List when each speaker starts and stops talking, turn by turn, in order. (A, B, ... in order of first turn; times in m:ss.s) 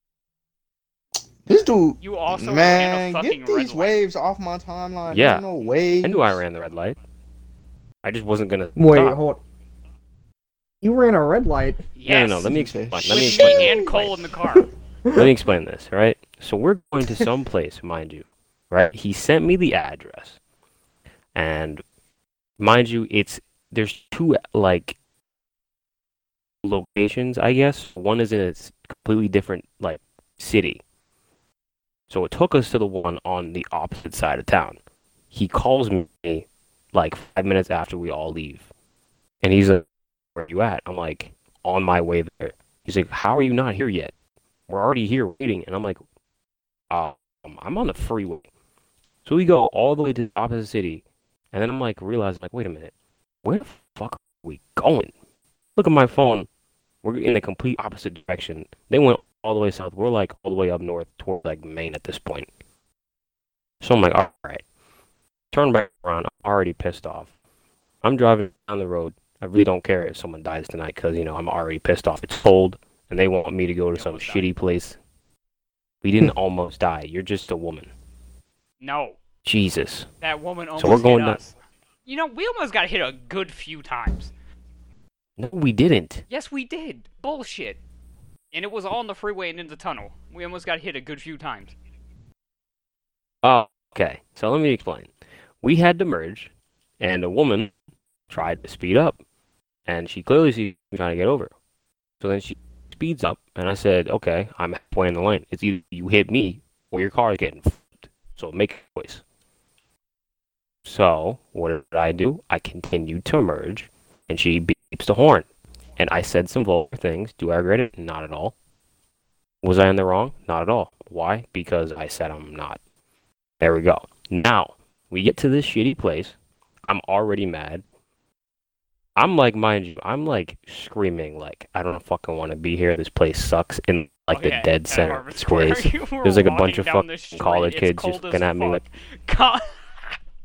0:01.5-0:06.4 A
0:02.0-0:04.0 B
0:05.1-0:05.4 C
0:06.0-0:07.0 C
0:08.0-0:09.2 C
0:08.8-0:09.4 D
0:10.8-0:11.8 D
0:12.0-0:12.5 B
0:12.0-0:14.2 C
0:12.4-0:14.0 A
0:13.1-0:14.7 B
0:15.0-0:15.3 D
0:15.1-0:20.4 C
0:21.3-0:21.8 C
0:22.6-0:25.0 C
0:26.6-0:30.8 C
0:32.1-0:34.8 C
0:35.3-0:38.7 C
0:39.4-0:39.8 C
0:40.3-0:44.1 C
0:44.7-0:46.0 C
0:46.9-0:48.4 C
0:49.2-0:52.9 C
0:53.4-0:55.1 C
0:55.8-0:56.5 C
0:57.0-1:02.5 C
1:03.8-1:04.6 C
1:05.5-1:07.3 C
1:08.0-1:15.0 C
1:13.9-1:14.5 B
1:16.0-1:17.9 C
1:18.8-1:19.2 B
1:19.4-1:20.1 C
1:20.2-1:21.5 B
1:20.8-1:21.4 C
1:22.0-1:24.3 B
1:25.4-1:26.2 C
1:26.3-1:27.8 B
1:28.5-1:31.7 B
1:33.4-1:35.1 C
1:35.6-1:37.7 C
1:38.3-1:39.2 C
1:39.8-1:41.5 C
1:42.2-1:49.2 C
1:50.8-1:58.5 C
1:59.6-2:02.8 C
2:03.6-2:07.8 C
2:09.2-2:18.8 C
2:14.3-2:20.2 B